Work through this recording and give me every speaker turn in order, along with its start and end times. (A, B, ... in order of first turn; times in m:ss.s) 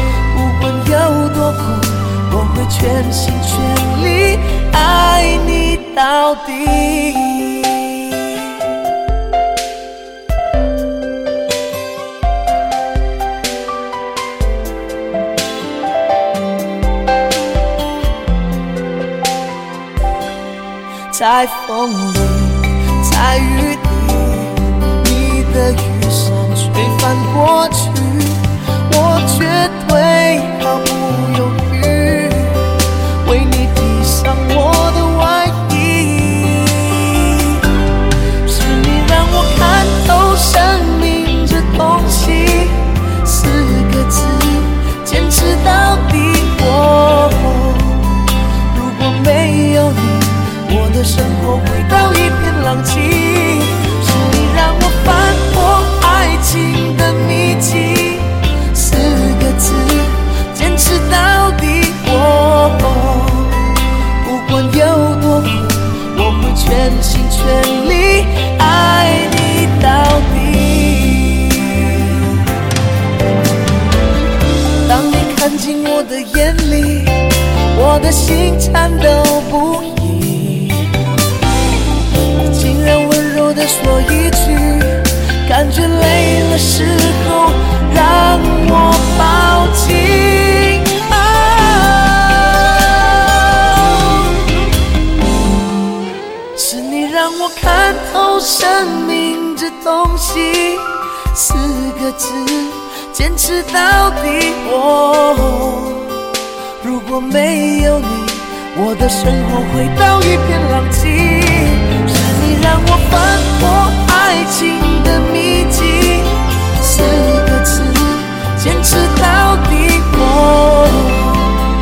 0:00.3-0:08.8 A
0:21.1-0:37.7 A
0:38.4-1:12.3 A
1:14.8-1:21.0 A
1:22.3-1:34.3 A
1:36.5-1:46.3 A
1:46.8-2:01.6 A